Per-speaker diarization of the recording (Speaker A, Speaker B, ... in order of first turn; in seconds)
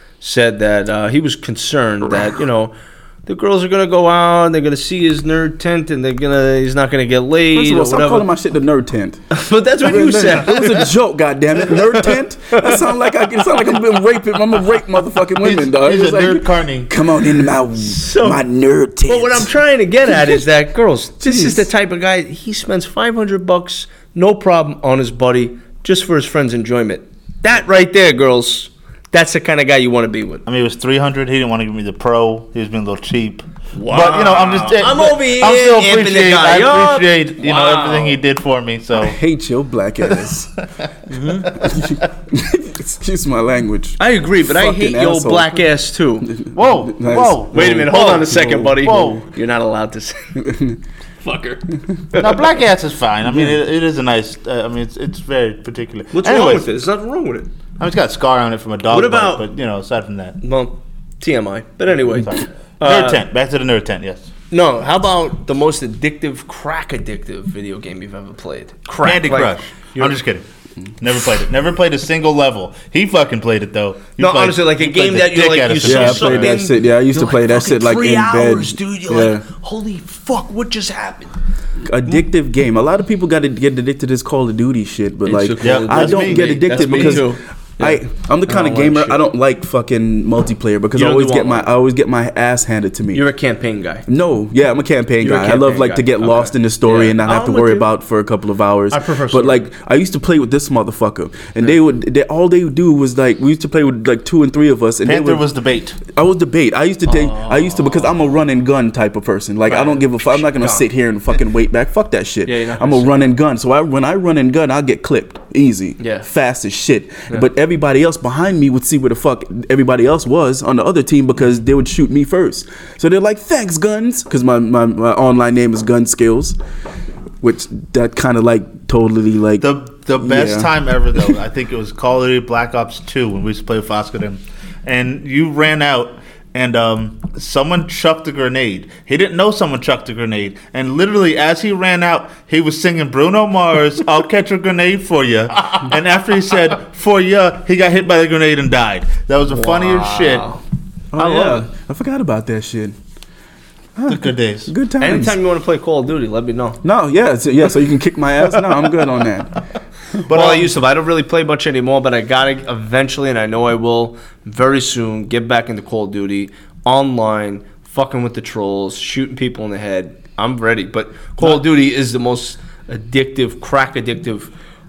Speaker A: 0.2-2.7, 3.3-8.3, 9.3-10.9, 12.5-12.8, 17.8-18.4, 19.1-30.4, 33.7-38.2, 41.1-41.5, 44.0-46.3, 47.5-50.4, 51.2-52.4, 56.1-57.5, 58.9-59.4, 60.4-63.2, 64.5-70.2, 74.2-81.3, 85.2-89.2, 91.0-91.7, 93.1-94.0, 95.2-97.9, 98.9-99.7, 107.1-108.1, 109.7-110.9, 112.5-113.2, 116.0-116.3, 149.5-150.6, 151.2-151.7, 155.0-156.8, 160.3-174.5
Speaker B: 7.5-9.2, 9.8-19.5, 20.1-20.4, 21.2-21.7, 39.0-40.5, 41.6-45.7, 46.2-48.7, 50.4-50.8, 75.8-79.4, 81.8-93.2, 94.1-105.4, 106.1-126.6, 127.4-129.7, 130.2-130.7, 151.1-153.0, 154.0-155.4, 156.8-159.5
Speaker C: 15.4-16.9, 30.5-39.2, 40.1-40.3, 41.1-42.0, 46.5-49.3, 52.1-56.7, 57.8-60.4, 62.1-64.3, 69.0-70.4, 71.0-76.6, 85.6-87.3, 105.0-106.0, 129.6-150.5, 154.1-154.7, 160.3-160.8